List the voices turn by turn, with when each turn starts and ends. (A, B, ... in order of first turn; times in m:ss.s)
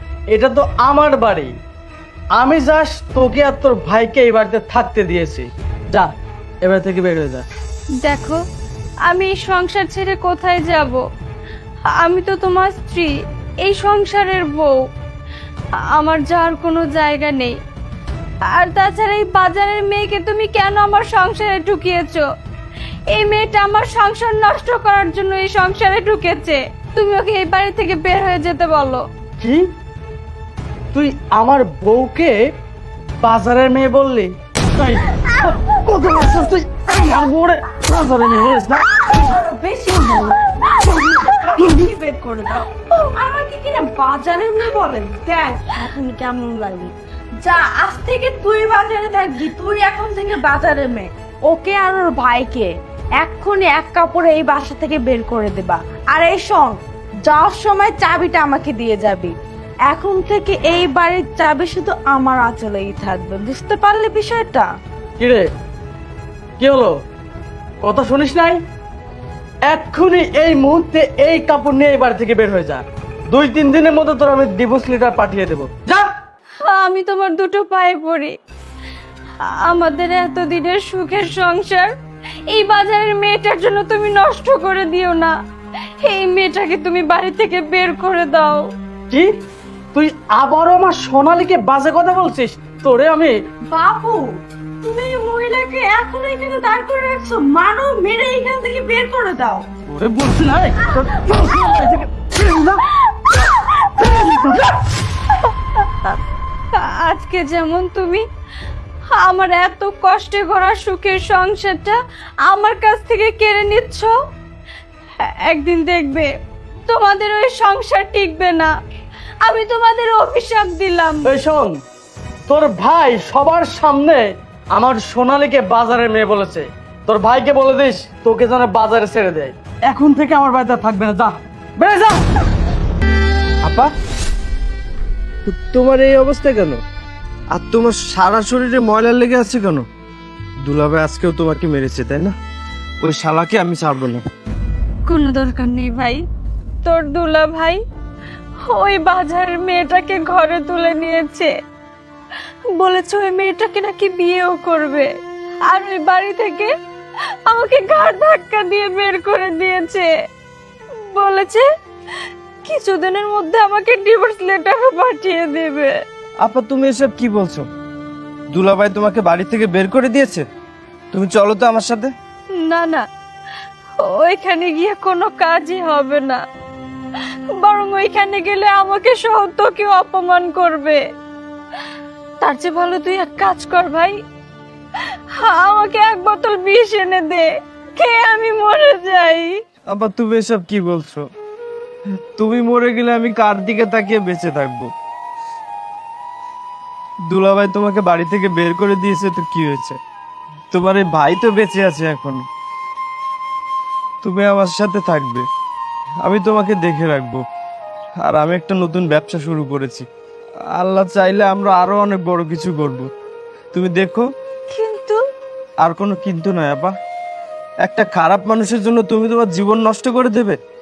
0:00.3-0:01.5 A
0:02.4-0:06.1 A
0:06.6-0:07.4 A
0:08.0-0:08.4 B
0:09.0-0:11.0 B
0:11.9-0:14.8 B
0:15.7-0:17.6 B
0:18.5-0:22.2 B
0:23.1-0:29.0 B
0:29.4-0:29.7 A
0:30.9-0:32.4 A
0:33.2-0:39.2 A
0:39.0-0:59.3 C
0:59.9-1:04.7 C
1:05.2-1:05.5 A
1:06.6-1:06.9 A
1:07.8-1:08.6 A
1:09.7-1:16.1 A
1:16.6-1:18.4 B
1:19.4-1:21.9 B
1:22.5-1:25.3 B
1:26.0-1:28.7 B
1:29.9-1:33.3 A
1:33.7-1:39.6 C
1:39.9-1:42.8 A
1:40.9-1:41.7 C
1:43.3-1:44.6 C
1:44.0-1:44.7 A
1:46.7-1:48.2 B
1:49.1-1:54.1 B
1:55.2-1:56.3 B
1:56.8-1:58.7 B
1:59.4-2:01.3 B
2:01.2-2:01.8 A
2:02.5-2:12.4 A
2:13.6-2:13.9 D
2:15.4-2:16.8 D
2:17.5-2:19.8 D
2:20.6-2:22.3 D
2:23.0-2:24.2 D
2:25.1-2:26.2 B
2:26.8-2:27.8 B
2:28.6-2:31.5 B
2:32.8-2:35.1 B
2:35.7-2:36.7 B
2:37.5-2:40.1 B
2:41.0-2:41.7 B
2:42.6-2:46.0 B
2:46.4-2:47.7 D
2:48.5-2:50.4 D
2:51.1-2:52.1 D
2:52.6-2:53.0 B
2:54.0-2:56.4 B
2:57.5-3:01.0 B
3:02.4-3:04.2 B
3:05.0-3:09.6 B
3:09.9-3:11.2 D
3:12.2-3:14.9 D
3:17.3-3:20.0 D
3:20.7-3:22.4 D
3:24.2-3:25.4 D
3:26.2-3:27.4 D
3:28.2-3:30.1 D
3:30.7-3:33.1 D
3:33.7-3:34.2 D
3:34.7-3:35.2 B
3:35.8-3:36.9 D
3:37.8-3:40.6 D